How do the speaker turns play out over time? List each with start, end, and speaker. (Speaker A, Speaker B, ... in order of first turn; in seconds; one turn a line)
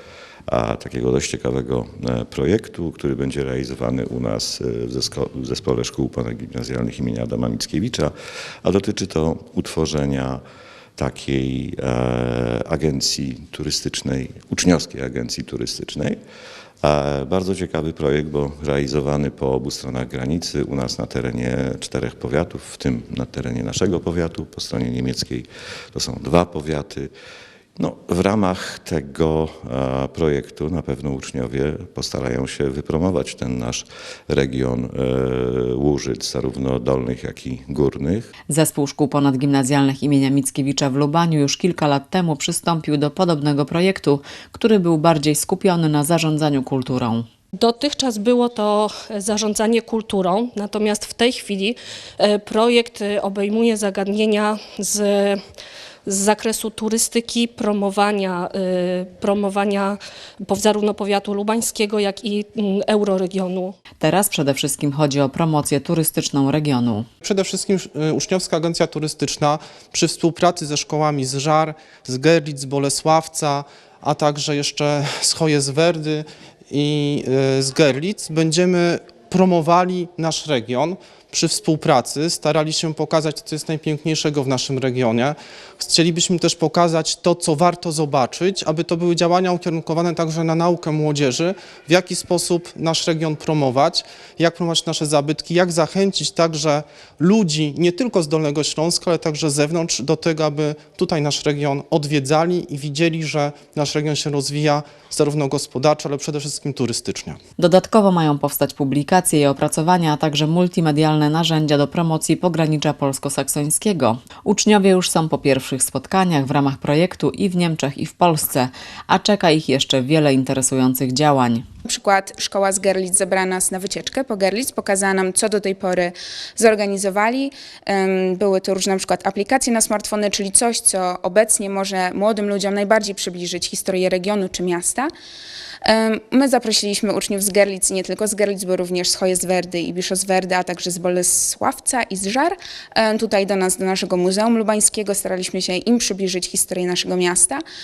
Speaker A: 0.5-8.1
Speaker A: 8.6-10.4
Speaker A: 10.9-16.2
Speaker A: 16.8-27.1
Speaker A: 27.8-38.3
Speaker B: 38.5-47.2
Speaker C: 47.6-55.4
Speaker C: 56.0-63.7
Speaker B: 64.0-67.1
Speaker D: 67.2-107.4
Speaker B: 107.6-121.6
Speaker E: 121.9-135.1
Speaker E: 135.8-147.6